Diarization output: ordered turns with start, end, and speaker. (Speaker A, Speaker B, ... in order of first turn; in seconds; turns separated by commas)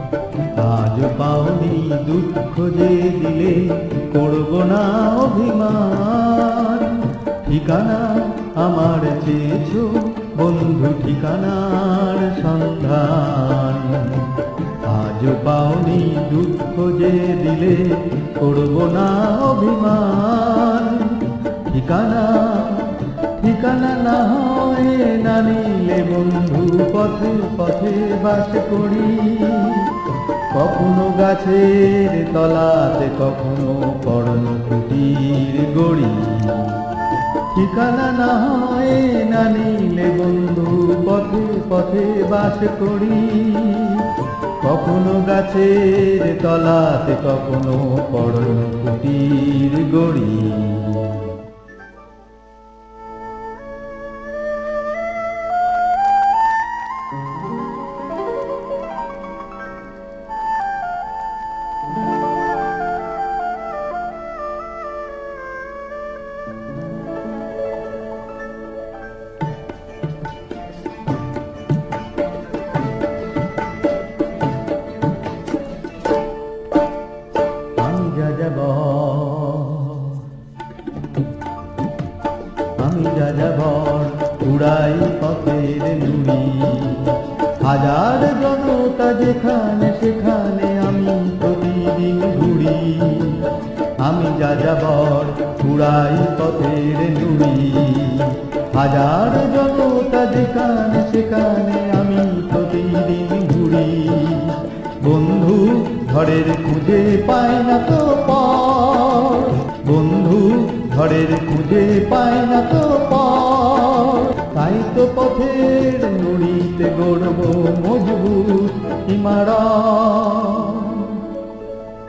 Speaker A: 0.6-36.9, Speaker A: 37.5-51.4, Speaker A: 77.8-80.3, Speaker A: 82.8-121.3